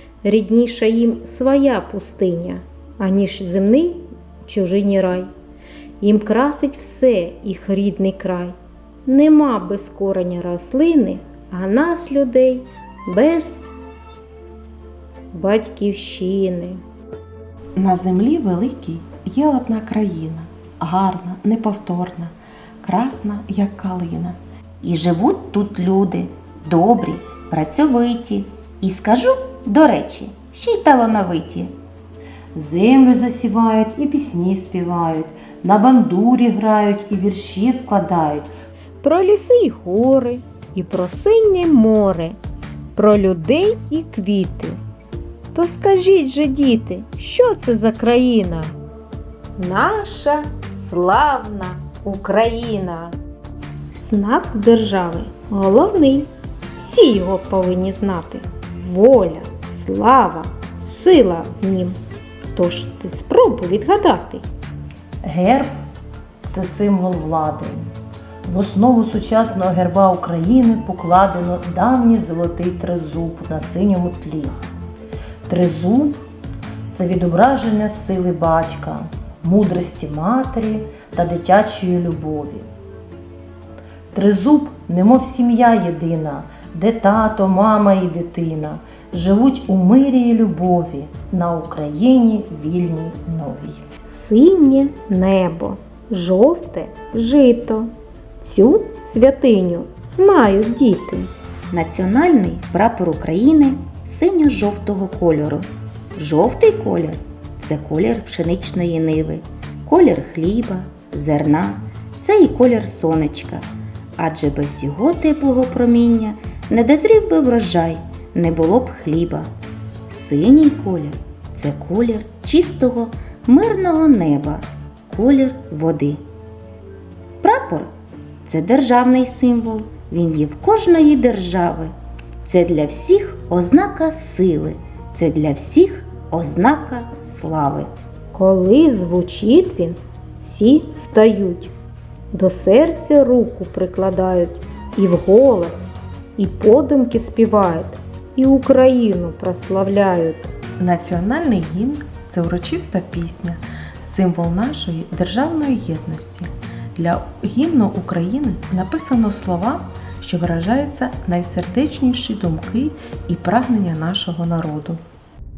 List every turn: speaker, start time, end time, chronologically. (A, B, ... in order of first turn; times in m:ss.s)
0:00.2-0:05.3 A
0:06.0-0:13.6 A
0:15.3-0:16.8 A
0:17.8-0:24.4 B
0:24.8-0:31.7 C
0:32.5-0:38.5 D
0:39.0-0:42.4 A
0:42.9-0:44.8 A
0:45.5-0:48.8 A
0:49.6-0:53.2 A
0:54.0-1:02.0 A
1:02.5-1:04.4 A
1:05.2-1:05.7 D
1:06.4-1:07.9 D
1:08.4-1:14.7 D
1:15.4-1:16.2 D
1:16.9-1:22.7 D
1:24.1-1:33.8 D
1:34.1-1:41.3 A
1:41.7-1:59.5 C
2:00.1-2:06.2 C
2:07.4-2:07.9 C
2:08.4-2:17.9 C
2:18.3-2:21.7 A
2:22.3-2:30.5 A
2:30.8-2:45.0 B